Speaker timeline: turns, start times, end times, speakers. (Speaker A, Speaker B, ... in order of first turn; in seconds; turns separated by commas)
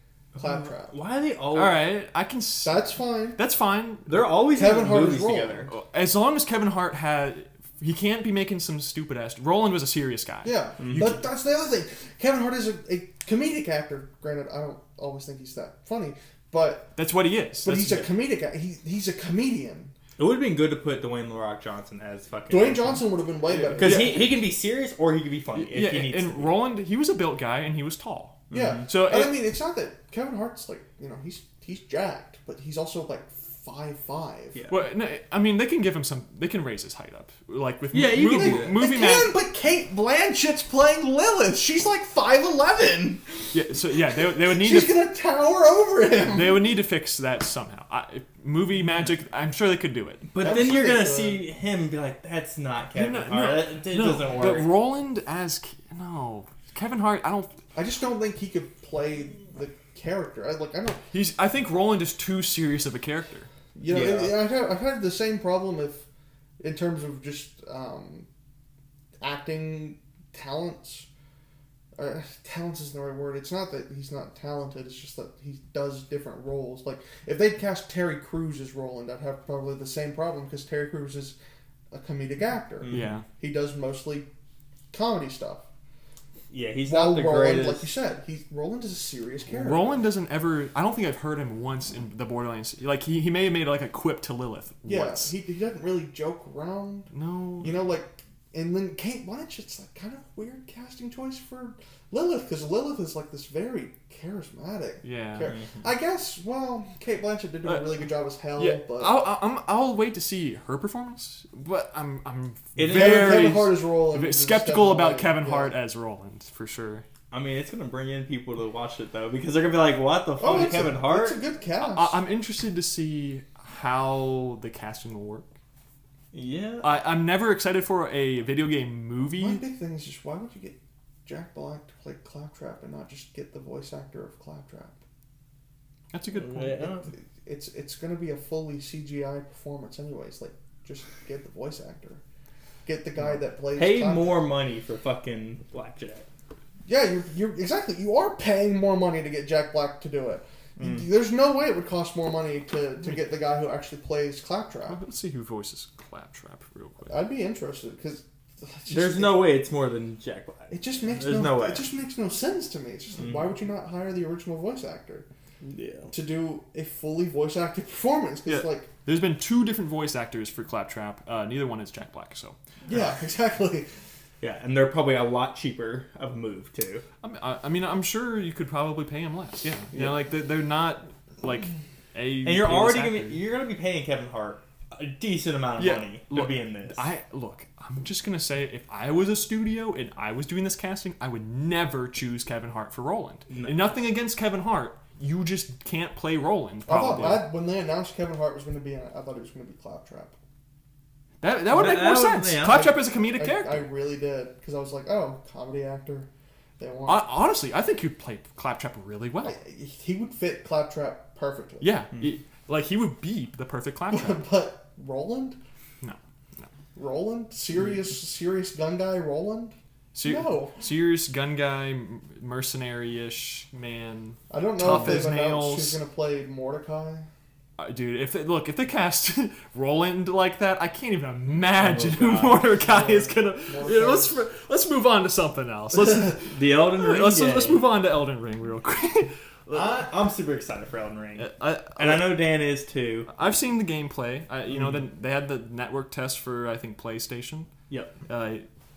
Speaker A: 0.3-1.0, Speaker B: 0.4-1.8, Speaker C: 1.5-4.3, Speaker A: 2.6-3.4, Speaker B: 4.1-5.7, Speaker A: 4.5-5.7, Speaker C: 5.7-11.1, Speaker A: 10.4-16.9, Speaker B: 10.8-11.2, Speaker C: 16.9-18.1, Speaker A: 17.6-19.9, Speaker B: 20.2-26.5, Speaker A: 22.5-24.2, Speaker C: 23.8-24.4, Speaker C: 25.6-29.4, Speaker B: 28.5-28.9, Speaker A: 28.5-34.6, Speaker C: 34.7-39.3, Speaker B: 37.9-38.8, Speaker A: 38.2-46.7, Speaker C: 43.5-45.0, Speaker C: 46.3-50.3, Speaker B: 50.3-54.8, Speaker A: 50.4-51.5, Speaker C: 53.0-57.6, Speaker A: 57.8-61.0, Speaker C: 61.1-63.5, Speaker A: 63.8-66.1, Speaker B: 63.9-64.4, Speaker A: 66.6-68.3, Speaker A: 69.2-71.1, Speaker A: 72.0-81.4, Speaker A: 81.9-84.3, Speaker B: 82.8-83.1, Speaker C: 82.9-83.2, Speaker A: 84.9-85.7, Speaker B: 86.5-87.9, Speaker A: 86.8-90.1, Speaker C: 89.5-95.3, Speaker A: 94.8-97.1, Speaker C: 97.1-97.7, Speaker A: 97.6-109.3, Speaker C: 105.0-105.5, Speaker B: 105.4-105.8, Speaker C: 107.7-117.1, Speaker B: 112.8-113.7, Speaker A: 112.9-115.8, Speaker B: 117.3-121.4, Speaker A: 120.4-122.2, Speaker C: 121.8-125.5, Speaker B: 126.3-127.0, Speaker C: 126.8-129.6, Speaker A: 129.4-135.0, Speaker C: 136.1-137.0, Speaker B: 136.3-137.1, Speaker A: 137.1-142.2, Speaker A: 142.8-144.5, Speaker B: 143.7-146.3, Speaker A: 146.9-155.0, Speaker B: 150.8-151.1, Speaker C: 154.9-157.2, Speaker A: 157.1-159.5, Speaker B: 158.9-161.9, Speaker A: 160.7-165.3, Speaker B: 163.2-163.5, Speaker B: 165.6-166.1, Speaker A: 166.1-168.9, Speaker C: 168.5-172.6, Speaker A: 172.9-173.9, Speaker B: 174.4-177.1, Speaker C: 177.2-183.4, Speaker B: 179.9-180.2, Speaker B: 182.4-187.1, Speaker C: 185.8-197.5, Speaker B: 193.5-193.9, Speaker A: 196.9-200.3, Speaker C: 201.4-203.9, Speaker B: 201.7-203.0, Speaker A: 203.3-207.3, Speaker C: 207.1-209.6, Speaker A: 209.4-211.9, Speaker C: 211.8-214.4, Speaker A: 214.1-215.6, Speaker C: 216.0-216.7, Speaker A: 217.0-220.8, Speaker C: 220.1-226.0, Speaker A: 224.5-227.3, Speaker B: 224.8-225.2, Speaker C: 227.8-240.1, Speaker B: 231.8-232.7, Speaker A: 232.8-234.4, Speaker B: 236.4-237.8, Speaker B: 239.7-243.3, Speaker C: 241.4-242.5, Speaker C: 243.3-247.7, Speaker B: 247.9-248.2, Speaker C: 248.3-248.7